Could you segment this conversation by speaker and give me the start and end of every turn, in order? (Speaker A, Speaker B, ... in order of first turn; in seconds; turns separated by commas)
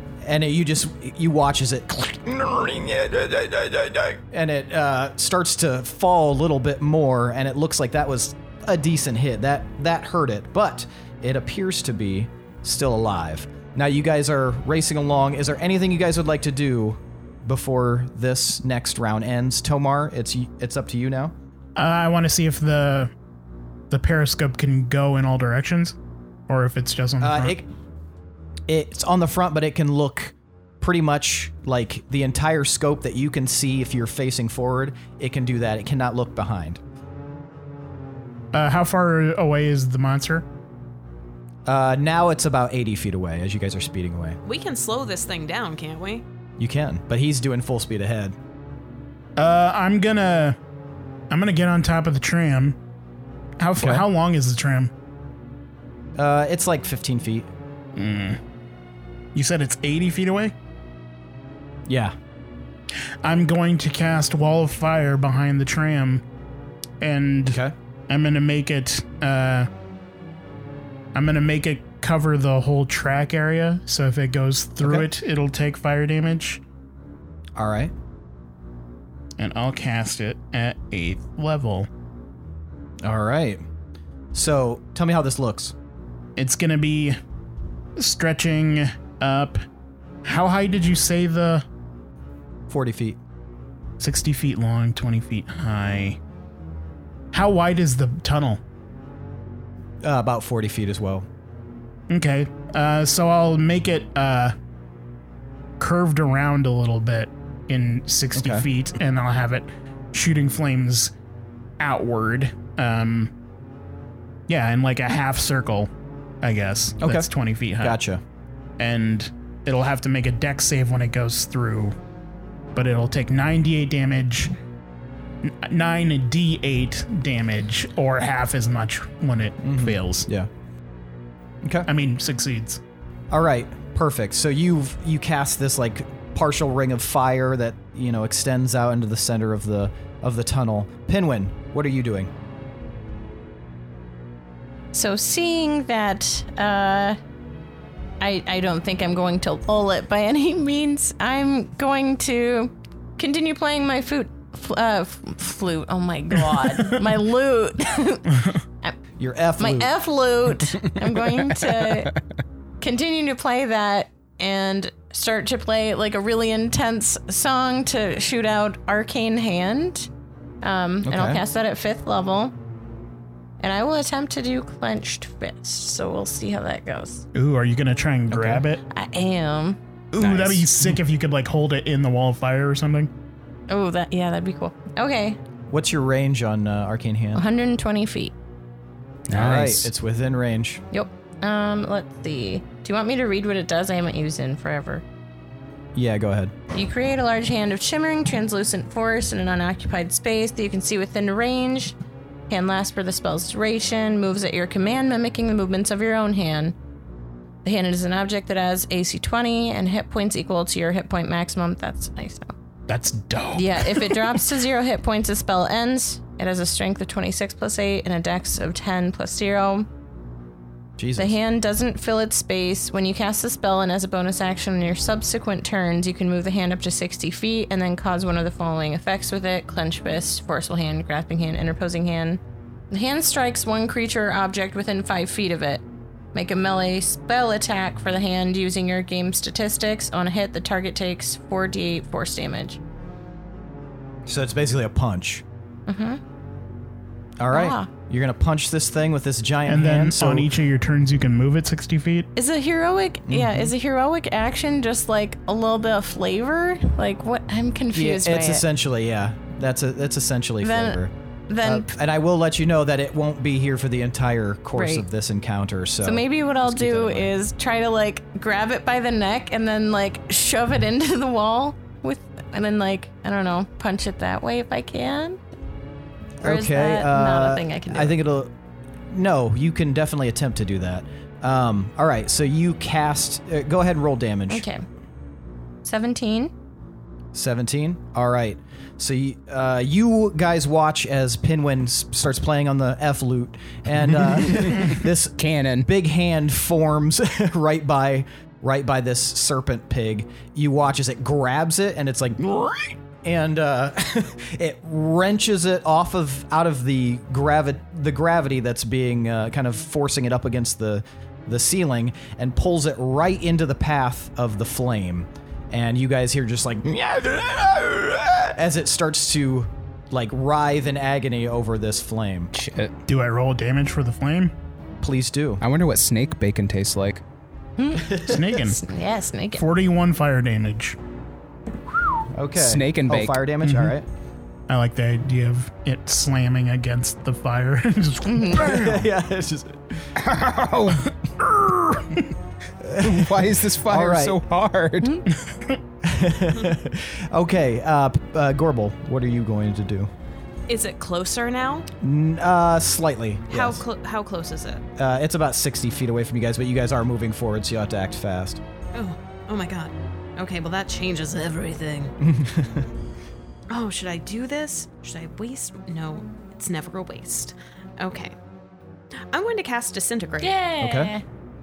Speaker A: 0.2-21.3, Speaker B: 21.8-23.1, Speaker B: 23.9-25.9, Speaker B: 26.5-27.6, Speaker A: 27.2-27.7, Speaker A: 28.7-36.8, Speaker B: 38.5-40.4, Speaker A: 41.6-44.4, Speaker C: 44.4-46.2, Speaker A: 46.6-48.4, Speaker B: 49.4-50.6, Speaker B: 51.3-52.8, Speaker B: 53.6-54.9, Speaker A: 53.8-54.0, Speaker A: 56.1-57.5, Speaker B: 57.9-58.4, Speaker B: 59.3-60.5, Speaker A: 61.9-62.1, Speaker B: 63.2-66.2, Speaker B: 67.0-69.7, Speaker A: 67.4-67.7, Speaker B: 71.1-76.6, Speaker A: 77.5-77.9, Speaker B: 79.4-81.9, Speaker A: 83.0-83.6, Speaker A: 84.3-85.7, Speaker B: 86.4-87.2, Speaker B: 88.0-89.6, Speaker B: 90.2-91.6, Speaker A: 92.7-93.2, Speaker B: 94.0-96.2, Speaker B: 97.3-98.6, Speaker A: 100.0-101.3, Speaker B: 102.1-104.5, Speaker B: 105.8-111.1, Speaker A: 108.3-108.7, Speaker B: 111.8-113.3, Speaker B: 114.5-115.9, Speaker B: 116.4-118.0, Speaker A: 117.0-117.3, Speaker A: 117.8-118.2, Speaker B: 118.8-121.9, Speaker B: 122.7-124.5, Speaker B: 125.4-130.3, Speaker A: 129.6-130.5, Speaker A: 131.6-131.9, Speaker B: 131.9-132.8, Speaker A: 133.3-142.3, Speaker D: 144.9-147.2, Speaker D: 148.2-158.9, Speaker A: 159.2-159.9, Speaker D: 159.6-162.2, Speaker D: 162.8-170.1, Speaker D: 170.6-172.5, Speaker A: 171.1-171.4, Speaker D: 173.6-177.2, Speaker B: 177.3-178.8, Speaker A: 178.3-178.6, Speaker D: 178.9-179.8, Speaker B: 180.1-183.1, Speaker E: 180.2-180.7, Speaker D: 183.7-185.4, Speaker A: 185.7-187.4, Speaker D: 187.3-188.3, Speaker E: 189.3-189.9, Speaker A: 189.3-190.8, Speaker D: 190.9-195.0, Speaker A: 195.9-196.6, Speaker D: 196.7-201.9, Speaker D: 202.5-206.7, Speaker D: 207.6-212.5, Speaker B: 212.9-214.4, Speaker D: 213.5-219.9, Speaker A: 221.0-221.4, Speaker D: 221.2-232.4, Speaker D: 232.9-235.8, Speaker D: 236.3-242.8, Speaker A: 244.2-245.4, Speaker D: 245.9-246.2, Speaker A: 247.4-250.5, Speaker D: 247.5-247.9, Speaker B: 249.7-252.3, Speaker D: 252.3-258.6, Speaker A: 253.3-253.7, Speaker A: 257.9-267.3, Speaker D: 260.6-261.9, Speaker D: 264.7-265.0, Speaker D: 266.0-275.4, Speaker D: 276.4-278.2, Speaker A: 276.4-278.5, Speaker A: 279.1-284.6, Speaker D: 284.5-284.8, Speaker D: 285.8-286.5, Speaker A: 287.3-322.5, Speaker E: 294.2-295.9, Speaker E: 322.5-322.9, Speaker B: 323.1-324.5, Speaker A: 325.0-325.6, Speaker E: 325.6-327.2, Speaker D: 327.8-329.6, Speaker A: 328.0-328.5, Speaker B: 328.2-328.8, Speaker B: 329.5-331.0, Speaker A: 332.3-334.1, Speaker E: 332.5-333.4, Speaker B: 333.6-333.9, Speaker B: 334.7-339.1, Speaker D: 338.2-338.6, Speaker A: 338.6-340.1, Speaker E: 340.1-341.1, Speaker A: 342.8-344.4, Speaker E: 343.0-345.2, Speaker B: 345.3-345.8, Speaker A: 346.0-350.1, Speaker C: 350.7-351.9, Speaker A: 352.0-353.8, Speaker C: 353.5-354.8, Speaker A: 355.0-358.6, Speaker C: 358.9-362.1, Speaker A: 362.2-362.9, Speaker C: 363.7-368.3, Speaker C: 369.3-370.6, Speaker D: 370.4-371.2, Speaker A: 370.8-371.1